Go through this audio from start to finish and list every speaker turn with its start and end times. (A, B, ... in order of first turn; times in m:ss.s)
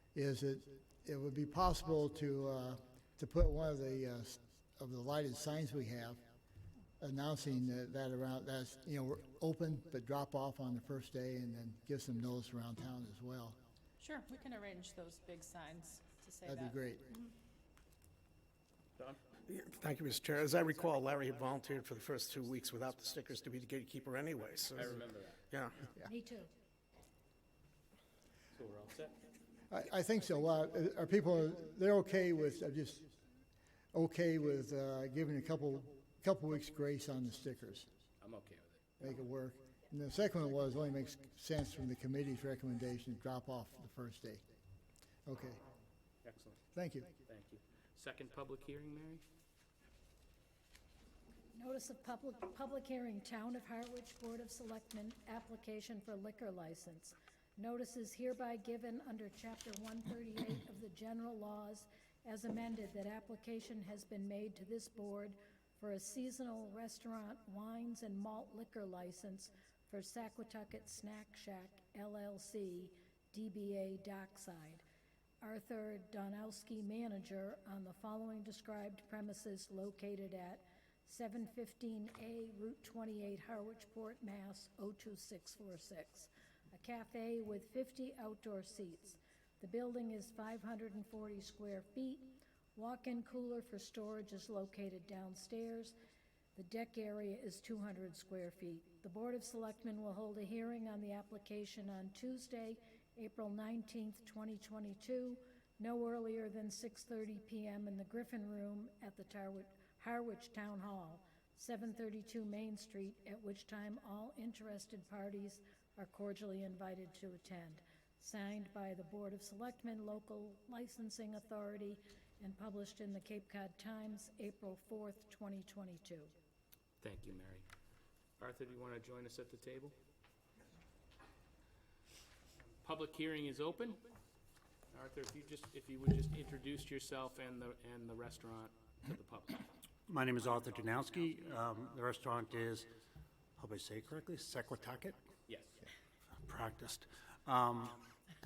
0:00.1-0:06.2 A
0:07.0-0:13.6 A
0:14.0-0:17.3 B
0:16.4-0:17.1 A
0:19.4-0:25.0 C
0:24.7-0:25.4 D
0:25.5-0:25.9 C
0:26.0-0:26.5 E
0:28.5-0:29.1 D
0:29.7-0:33.1 A
0:33.9-0:37.9 A
0:38.2-0:38.8 D
0:39.0-0:44.4 A
0:45.2-0:45.6 A
0:46.2-0:46.6 D
0:46.7-0:47.1 A
0:47.2-0:49.2 D
0:51.5-1:14.8 E
1:15.4-1:35.9 E
1:36.5-2:06.3 E
2:07.0-2:07.6 D
2:08.4-2:09.9 D
2:12.8-2:14.0 D
2:14.9-2:19.7 D
2:20.1-2:22.9 F
2:23.6-2:25.1 F
2:25.5-2:25.9 D
2:26.4-2:28.0 F